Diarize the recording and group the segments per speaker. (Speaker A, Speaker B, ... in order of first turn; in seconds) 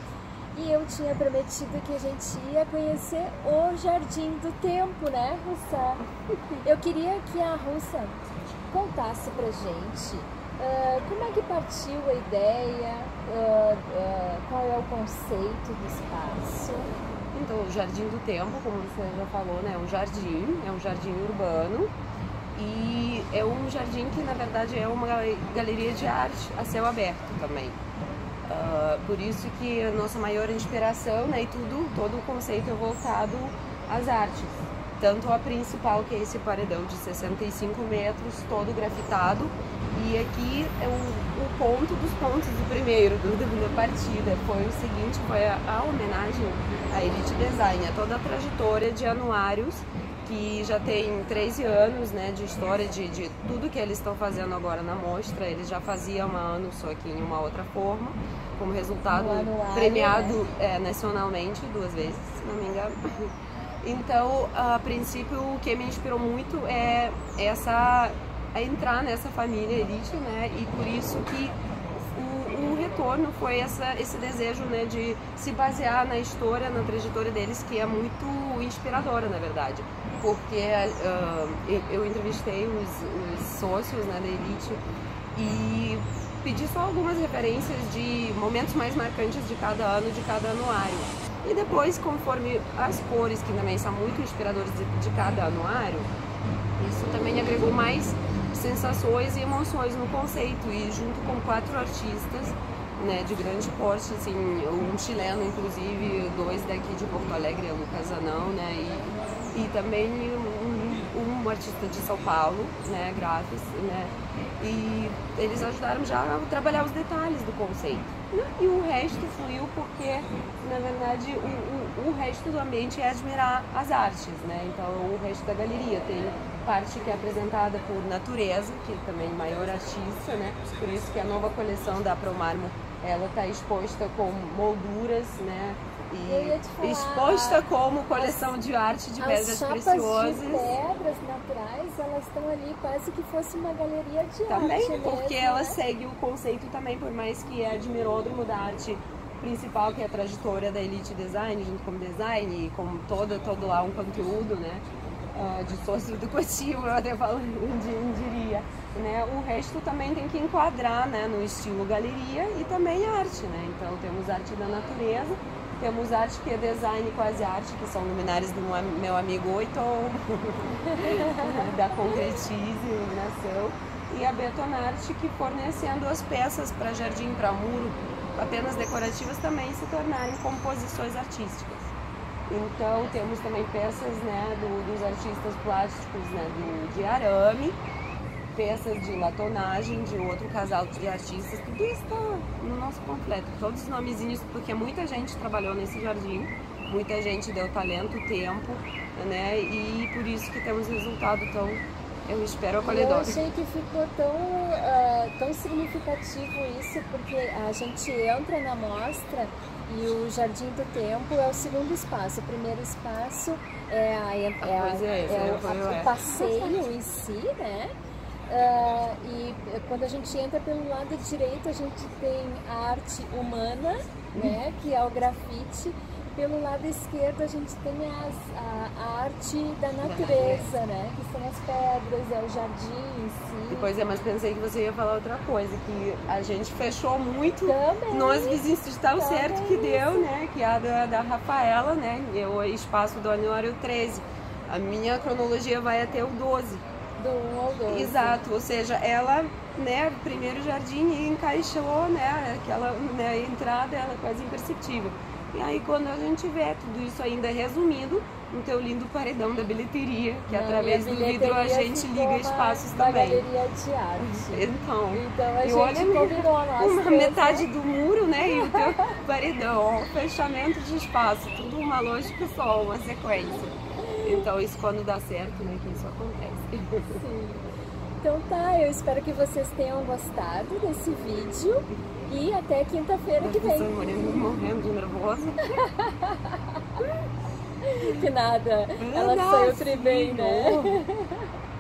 Speaker A: 0.5-6.0, 6.6-8.2, 8.7-16.9, 59.1-60.4, 136.3-138.6, 139.2-145.8, 170.9-171.4, 202.8-217.9, 218.5-233.9, 237.7-238.6, 239.2-240.3, 247.2-248.4, 260.5-267.7, 268.4-269.1, 274.1-274.4, 277.1-277.6, 278.2-283.9, 285.7-287.1, 287.8-291.5
Speaker B: 17.3-21.9, 22.6-27.8, 28.5-63.3, 63.8-84.8, 85.3-96.1, 96.8-140.7, 144.5-181.9, 182.5-187.8, 188.5-203.5, 214.6-216.8, 224.3-224.6, 230.0-230.7, 233.7-246.8, 247.9-263.5, 264.2-277.2, 283.4-285.7, 289.0-291.0